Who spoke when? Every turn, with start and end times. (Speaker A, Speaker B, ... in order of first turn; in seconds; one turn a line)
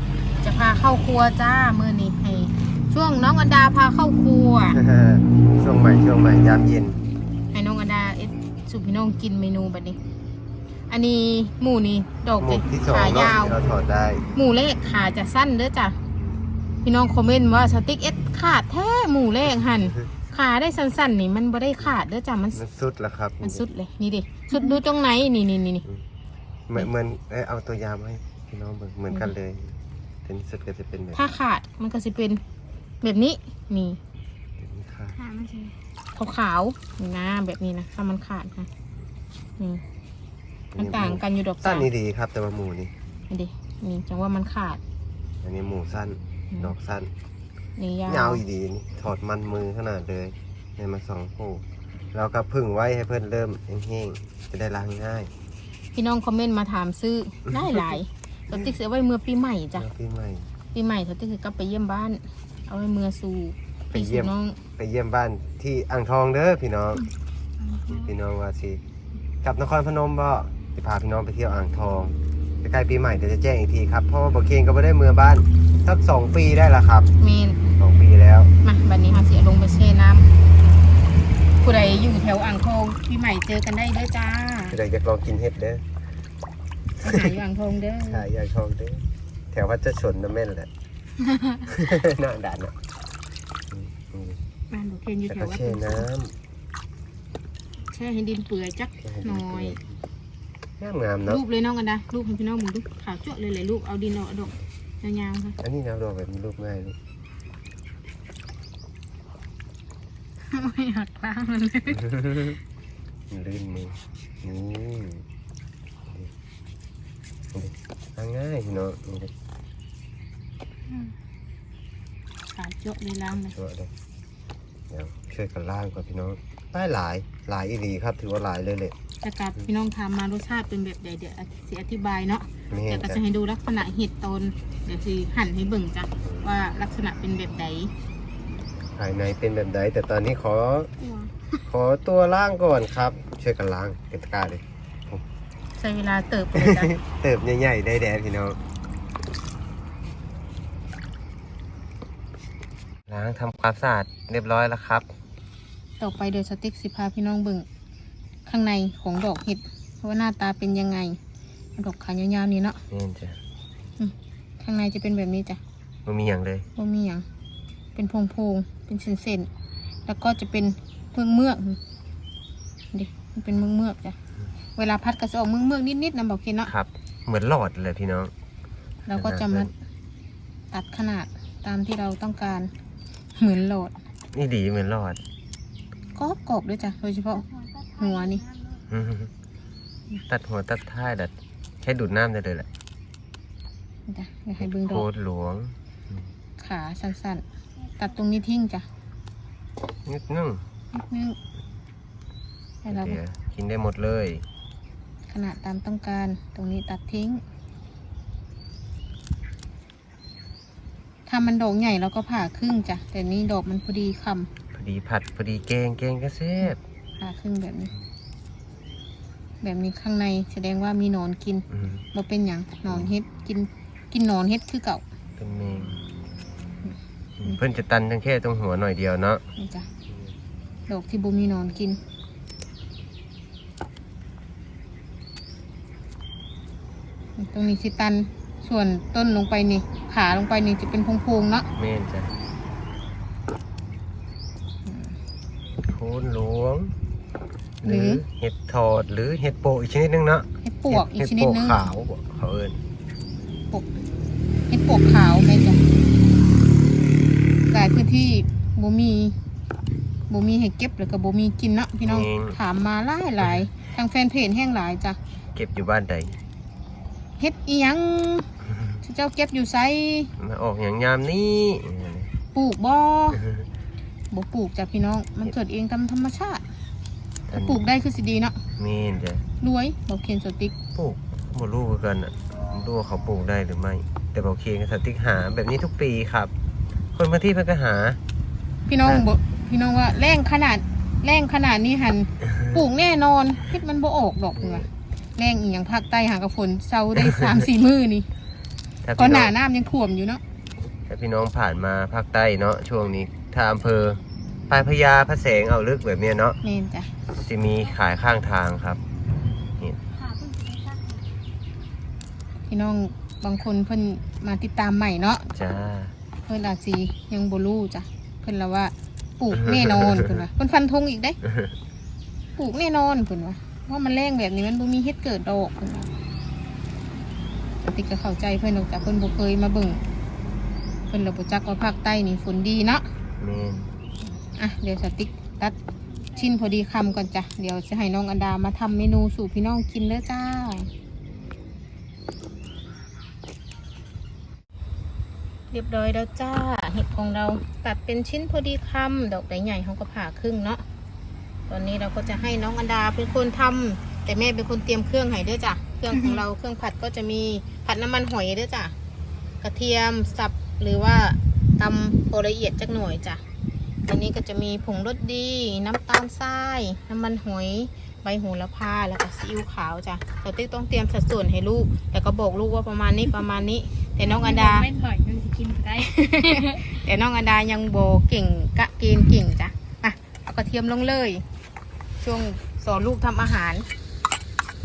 Speaker A: 0.4-4.8
Speaker B: 4.7-7.0
Speaker A: 7.5-10.0
Speaker A: 10.9-13.6
Speaker B: 12.4-14.3
Speaker A: 14.3-16.0
Speaker A: 16.8-22.6
Speaker B: 22.6-23.6
Speaker A: 23.4-25.9
Speaker B: 26.7-31.4
Speaker A: 31.1-32.4
Speaker A: 33.0-34.0
Speaker B: 34.6-35.2
Speaker C: 35.1-35.8
Speaker A: 36.1-38.7
Speaker B: 40.7-42.9
Speaker A: 40.8-41.9
Speaker A: 43.3-44.8
Speaker B: 45.4-47.1
Speaker A: 47.8-48.4
Speaker B: 48.1-55.3
Speaker A: 55.9-59.9
Speaker B: 57.5-58.0
Speaker B: 59.8-60.5
Speaker A: 60.7-64.6
Speaker B: 63.9-67.0
Speaker C: 67.6-68.1
Speaker B: 67.9-68.8
Speaker B: 69.4-77.1
Speaker A: 77.2-77.6
Speaker B: 77.8-78.5
Speaker A: 78.6-80.3
Speaker A: 81.6-84.8
Speaker B: 84.7-85.8
Speaker A: 87.0-88.3
Speaker B: 88.1-90.7
Speaker B: 91.7-92.7
Speaker B: 93.7-94.4
Speaker A: 94.7-96.1
Speaker B: 95.3-96.3
Speaker A: 97.9-99.8
Speaker B: 99.0-99.9
Speaker B: 100.8-101.4
Speaker A: 101.3-105.6
Speaker B: 105.6-107.0
Speaker A: 110.5-112.1
Speaker B: 112.1-112.6
Speaker B: 113.3-115.2
Speaker B: 117.5-119.3
Speaker A: 122.5-123.5
Speaker B: 123.3-123.9
Speaker B: 124.9-128.9
Speaker A: 129.2-137.9
Speaker B: 132.7-133.2
Speaker B: 139.0-140.9
Speaker B: 141.7-145.2
Speaker A: 145.8-147.0
Speaker B: 146.6-148.6
Speaker B: 153.1-155.1
Speaker A: 156.0-157.7
Speaker A: 158.5-161.2
Speaker A: 161.8-162.8
Speaker B: 162.9-163.4
Speaker A: 164.0-165.6
Speaker B: 166.1-166.7
Speaker A: 166.8-167.3
Speaker A: 168.0-169.5
Speaker A: 170.1-171.8
Speaker A: 172.9-174.2
Speaker A: 174.8-176.7
Speaker B: 176.7-178.3
Speaker A: 179.1-179.7
Speaker B: 179.1-179.7
Speaker A: 180.7-182.7
Speaker A: 183.4-184.0
Speaker B: 184.3-185.2
Speaker A: 186.2-187.5
Speaker C: 187.3-188.8
Speaker A: 188.0-188.4
Speaker B: 188.9-189.3
Speaker B: 190.3-192.7
Speaker A: 194.1-195.1
Speaker B: 194.6-196.2
Speaker A: 196.6-197.4
Speaker A: 198.0-198.9
Speaker B: 200.1-200.6
Speaker A: 200.9-201.4
Speaker A: 202.8-203.2
Speaker B: 202.9-204.4
Speaker A: 205.3-207.4
Speaker A: 211.3-214.5
Speaker B: 214.7-216.8
Speaker A: 217.2-217.9
Speaker A: 219.6-225.0
Speaker B: 221.7-222.0
Speaker B: 225.4-226.1
Speaker A: 226.8-227.6
Speaker B: 227.4-229.4
Speaker A: 229.6-229.9
Speaker A: 230.9-232.0
Speaker A: 237.4-241.7
Speaker B: 241.8-242.3
Speaker A: 244.9-245.2
Speaker B: 245.8-246.9
Speaker B: 247.8-252.8
Speaker A: 247.8-248.2
Speaker A: 250.6-251.9
Speaker A: 254.7-255.8
Speaker A: 257.7-259.4
Speaker A: 260.3-265.2
Speaker B: 262.0-262.6
Speaker B: 265.6-266.4
Speaker A: 267.4-268.5
Speaker A: 269.0-270.3
Speaker B: 270.4-272.3
Speaker A: 272.5-273.4
Speaker A: 274.3-276.7
Speaker B: 277.5-277.9
Speaker A: 277.5-278.6
Speaker B: 278.8-279.4
Speaker A: 279.6-280.8
Speaker B: 280.9-286.5
Speaker B: 287.1-288.2
Speaker A: 288.9-298.3
Speaker B: 299.0-299.5
Speaker A: 299.2-300.4
Speaker B: 301.1-306.6
Speaker A: 306.6-307.1
Speaker B: 307.3-309.0
Speaker C: 310.1-311.2
Speaker A: 312.7-315.5
Speaker B: 315.5-316.1
Speaker A: 316.5-321.4
Speaker B: 319.6-320.4
Speaker A: 322.6-326.1
Speaker A: 327.8-330.0
Speaker A: 331.1-333.1
Speaker B: 333.4-333.9
Speaker A: 334.4-335.8
Speaker C: 336.3-337.1
Speaker A: 336.4-340.9
Speaker A: 345.7-350.8
Speaker A: 351.7-358.9
Speaker C: 356.1-356.4
Speaker A: 359.6-363.4
Speaker A: 364.1-374.9
Speaker C: 374.2-377.0
Speaker A: 376.0-381.4
Speaker A: 382.2-383.9